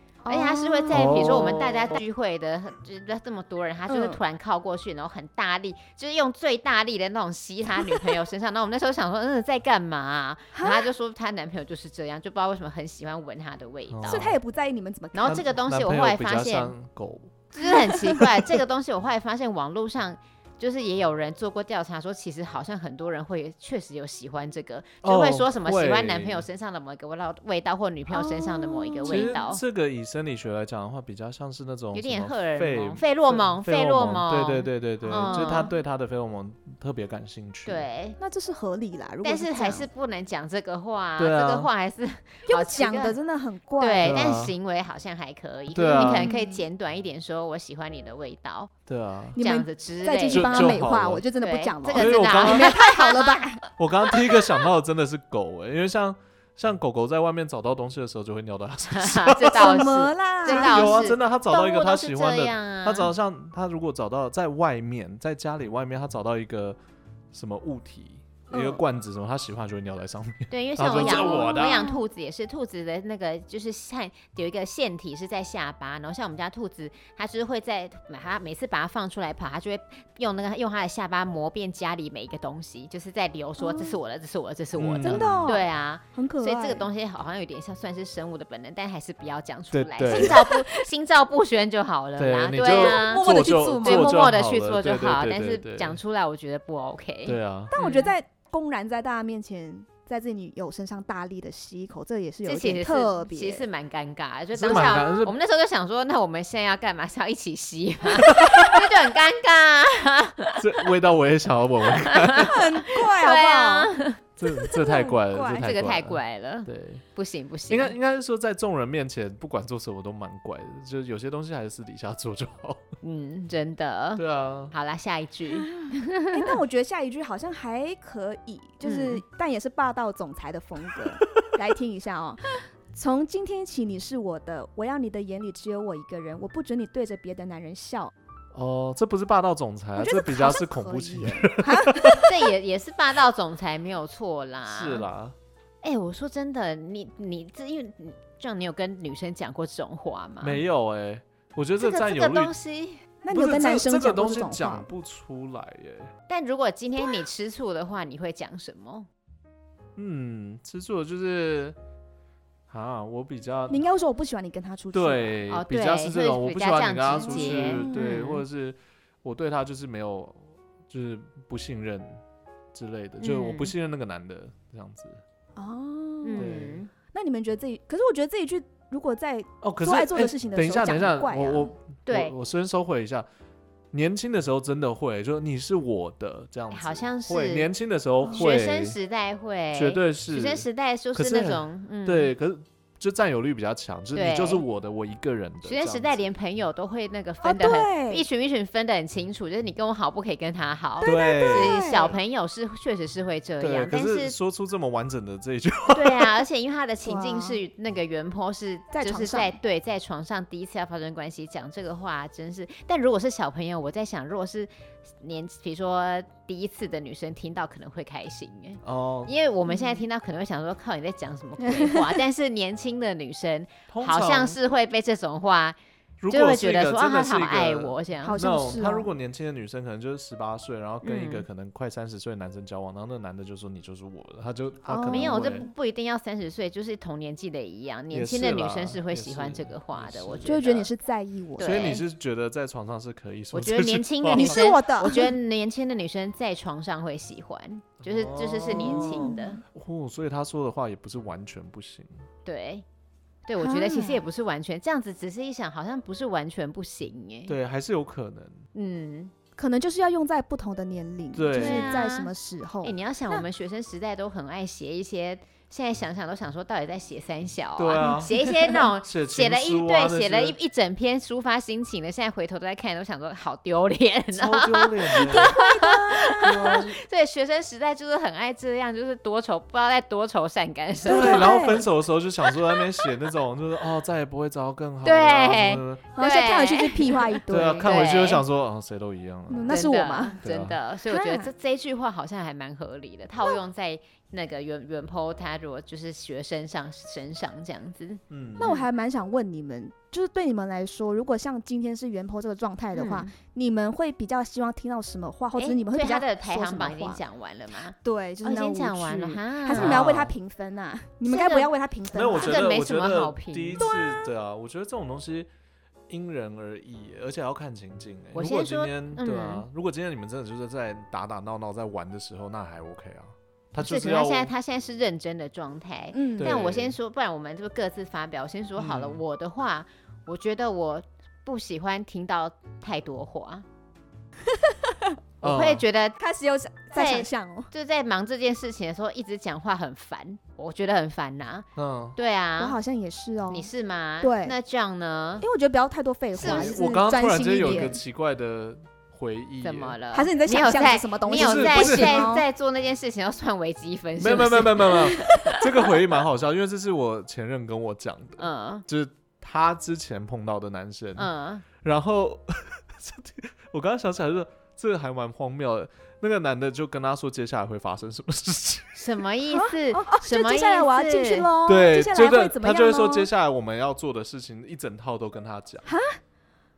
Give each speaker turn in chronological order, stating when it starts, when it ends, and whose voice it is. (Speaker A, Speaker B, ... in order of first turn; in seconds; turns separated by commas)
Speaker A: 0.2-1.2, Speaker B: 0.3-14.3, Speaker C: 0.9-1.9, Speaker A: 3.9-4.2, Speaker A: 10.5-10.9, Speaker C: 13.9-14.3, Speaker A: 14.0-15.4, Speaker B: 15.1-16.7, Speaker C: 15.2-18.2, Speaker B: 17.6-29.6, Speaker A: 17.6-18.2, Speaker C: 25.0-26.4, Speaker A: 28.1-29.4, Speaker C: 29.0-37.9, Speaker B: 31.9-35.7, Speaker B: 37.6-38.2, Speaker A: 38.2-39.9, Speaker B: 39.2-43.2, Speaker C: 41.2-41.7, Speaker A: 42.5-44.2, Speaker B: 43.8-48.7, Speaker C: 44.0-44.5, Speaker C: 45.7-46.3, Speaker A: 45.9-46.6, Speaker C: 48.9-49.4, Speaker B: 49.4-50.8, Speaker A: 49.4-53.6, Speaker C: 50.3-51.2, Speaker B: 51.4-53.6, Speaker C: 51.9-52.7, Speaker C: 53.8-59.9, Speaker B: 58.9-63.1, Speaker A: 59.5-61.0, Speaker C: 60.5-66.8, Speaker C: 67.3-71.9, Speaker B: 68.5-68.8, Speaker B: 70.5-98.1, Speaker A: 71.0-72.0, Speaker A: 83.6-84.0, Speaker C: 84.8-85.5, Speaker A: 85.0-85.6, Speaker A: 86.1-86.9, Speaker C: 89.7-90.4, Speaker A: 90.1-90.8, Speaker C: 92.2-96.0, Speaker A: 92.6-94.2, Speaker C: 97.2-97.7, Speaker A: 97.7-103.6, Speaker B: 102.4-110.6, Speaker C: 104.5-105.3, Speaker C: 108.2-108.8, Speaker C: 110.6-112.7, Speaker B: 112.0-114.2, Speaker A: 112.3-113.9, Speaker C: 114.4-117.0, Speaker A: 114.6-115.7, Speaker B: 115.6-117.9, Speaker C: 117.7-122.9, Speaker B: 123.0-126.5, Speaker C: 124.2-124.7, Speaker A: 125.5-138.1, Speaker B: 128.8-129.2, Speaker C: 138.5-142.3, Speaker A: 140.0-142.2, Speaker B: 142.2-145.0, Speaker C: 144.7-145.3, Speaker B: 145.8-150.6, Speaker C: 150.4-152.5, Speaker B: 151.8-153.0, Speaker A: 153.2-154.9, Speaker C: 153.3-156.1, Speaker B: 156.3-159.1, Speaker C: 159.9-161.8, Speaker C: 162.7-163.8, Speaker A: 163.7-165.4, Speaker C: 164.9-172.2, Speaker B: 165.5-168.4, Speaker A: 167.2-168.3, Speaker C: 172.7-175.2, Speaker B: 173.2-173.7, Speaker A: 175.6-176.5, Speaker B: 176.2-176.9, Speaker C: 176.4-176.8, Speaker A: 177.1-181.7, Speaker C: 179.6-183.2, Speaker B: 182.1-182.3, Speaker C: 183.9-189.0, Speaker B: 186.7-187.7, Speaker B: 188.3-192.3, Speaker C: 189.7-196.2, Speaker B: 194.1-194.6, Speaker B: 195.6-204.3, Speaker A: 197.4-198.2, Speaker A: 201.0-202.2, Speaker C: 201.0-201.8, Speaker C: 203.6-206.4, Speaker B: 205.9-225.8, Speaker A: 207.0-207.6, Speaker A: 208.9-209.6, Speaker C: 218.8-219.3, Speaker A: 219.7-220.0, Speaker A: 221.6-222.2, Speaker C: 223.9-224.6, Speaker C: 226.2-235.7, Speaker B: 226.3-228.4, Speaker A: 228.2-229.1, Speaker B: 231.0-231.4, Speaker A: 234.8-235.4, Speaker B: 235.1-240.9, Speaker C: 238.1-240.6, Speaker A: 240.4-242.0, Speaker B: 241.6-242.0, Speaker C: 241.6-244.6, Speaker B: 243.5-249.6, Speaker A: 244.3-245.3, Speaker C: 248.0-252.1, Speaker A: 248.7-249.6, Speaker B: 252.4-252.8, Speaker B: 253.5-257.6, Speaker A: 253.6-254.2, Speaker C: 257.5-258.6, Speaker B: 258.7-259.3, Speaker A: 259.6-263.4, Speaker C: 261.3-262.0, Speaker B: 261.5-262.3, Speaker B: 262.8-281.8, Speaker C: 267.8-268.3, Speaker A: 268.0-268.7, Speaker C: 269.0-270.6, Speaker C: 274.3-275.5, Speaker A: 275.1-276.8, Speaker C: 276.4-277.0, Speaker A: 281.0-281.9, Speaker C: 281.1-286.1, Speaker B: 285.0-288.4, Speaker A: 286.1-288.0, Speaker C: 287.5-289.9, Speaker A: 289.5-290.4, Speaker B: 289.7-298.9, Speaker C: 290.4-290.8, Speaker A: 291.1-291.5, Speaker C: 298.3-298.7, Speaker A: 298.6-307.2, Speaker B: 302.9-303.3, Speaker B: 305.5-310.1, Speaker A: 308.0-312.6, Speaker C: 309.7-310.3, Speaker B: 311.3-311.7, Speaker C: 312.1-315.5, Speaker B: 312.3-313.9, Speaker A: 313.8-314.3, Speaker C: 316.1-324.5, Speaker B: 318.3-319.6, Speaker B: 323.8-333.6, Speaker A: 326.1-326.6, Speaker C: 326.4-326.9, Speaker C: 328.8-329.2, Speaker A: 334.5-335.2, Speaker B: 335.4-336.2, Speaker C: 335.4-335.8, Speaker A: 336.2-337.7, Speaker B: 336.9-342.8, Speaker C: 341.8-342.2, Speaker A: 342.6-343.7, Speaker B: 343.5-345.4, Speaker A: 344.2-344.5, Speaker A: 345.4-348.0, Speaker B: 346.4-346.8, Speaker C: 346.4-349.9, Speaker B: 349.6-355.6, Speaker A: 350.1-352.4, Speaker C: 351.3-352.3, Speaker C: 354.2-369.0, Speaker B: 358.4-358.8, Speaker B: 361.1-361.6, Speaker B: 368.9-371.5, Speaker A: 369.5-373.3, Speaker C: 371.6-375.9, Speaker A: 375.9-376.2